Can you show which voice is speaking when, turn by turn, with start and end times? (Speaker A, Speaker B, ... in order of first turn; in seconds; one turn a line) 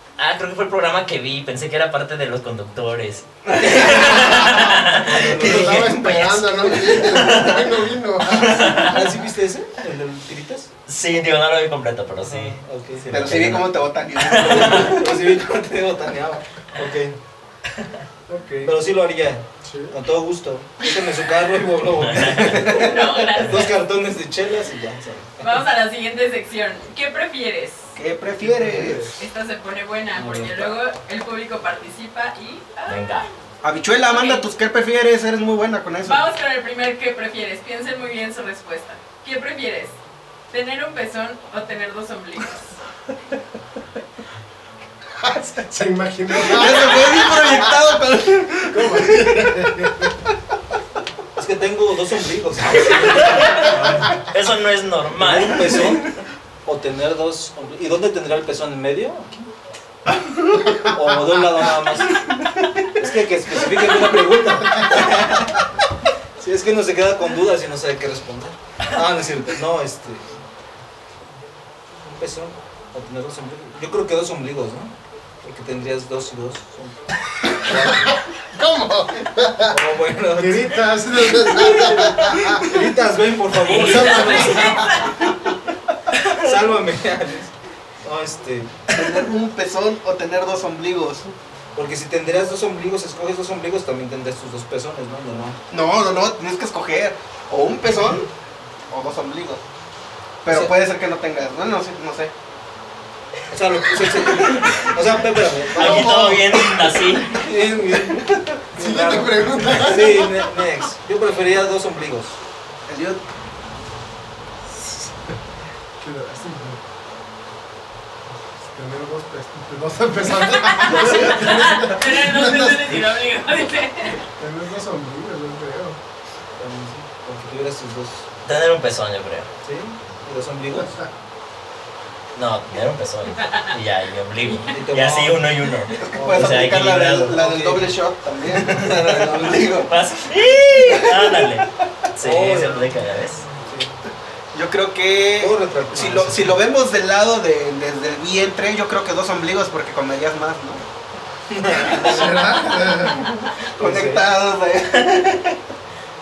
Speaker A: 0.2-9.1
Speaker B: 3.5-4.6
Speaker C: 3.7-6.1
Speaker D: 5.3-9.0
Speaker C: 8.7-10.7
Speaker A: 10.9-15.0
Speaker C: 12.2-13.4
Speaker B: 13.1-15.2
Speaker C: 14.3-17.2
Speaker D: 18.3-18.7
Speaker C: 18.6-25.6
Speaker D: 19.6-19.9
Speaker A: 22.0-22.7
Speaker B: 22.6-22.8
Speaker E: 22.7-23.8
Speaker E: 25.4-27.9
Speaker B: 27.9-29.1
Speaker D: 28.4-29.1
Speaker E: 29.2-33.3
Speaker C: 30.2-30.7
Speaker A: 32.9-33.3
Speaker B: 33.6-36.2
Speaker E: 34.0-34.5
Speaker E: 36.0-40.0
Speaker E: 40.5-42.8
Speaker D: 45.2-47.8
Speaker B: 46.4-49.6
Speaker D: 48.7-50.1
Speaker C: 51.4-54.0
Speaker A: 53.4-56.0
Speaker D: 53.8-54.0
Speaker C: 55.2-56.1
Speaker C: 56.6-59.5
Speaker C: 60.7-62.2
Speaker C: 63.0-65.7
Speaker C: 66.4-70.3
Speaker C: 72.0-78.1
Speaker D: 77.6-79.8
Speaker C: 79.7-84.8
Speaker D: 80.4-82.7
Speaker A: 83.6-84.9
Speaker D: 83.8-84.9
Speaker E: 84.0-85.2
Speaker C: 86.1-89.1
Speaker B: 88.9-91.3
Speaker C: 91.7-95.6
Speaker B: 95.7-98.3
Speaker B: 98.9-99.6
Speaker B: 100.5-102.3
Speaker C: 103.5-106.4
Speaker B: 104.0-104.9
Speaker A: 105.7-107.4
Speaker D: 105.9-106.6
Speaker C: 107.2-112.3
Speaker D: 108.7-110.5
Speaker B: 112.9-113.2
Speaker D: 116.0-116.8
Speaker D: 118.6-123.0
Speaker E: 120.4-124.2
Speaker D: 124.4-126.0
Speaker C: 126.6-128.3
Speaker A: 128.4-129.5
Speaker C: 129.6-131.1
Speaker A: 132.3-137.4
Speaker C: 134.7-135.5
Speaker B: 136.0-139.8
Speaker C: 136.1-137.9
Speaker C: 138.5-139.9
Speaker A: 139.4-143.5
Speaker C: 141.2-141.4
Speaker C: 142.2-143.0
Speaker C: 143.6-143.9
Speaker B: 144.5-150.8
Speaker C: 145.4-146.4
Speaker C: 151.5-152.3
Speaker B: 151.9-152.4
Speaker D: 151.9-153.3
Speaker C: 153.8-154.3
Speaker B: 153.8-155.6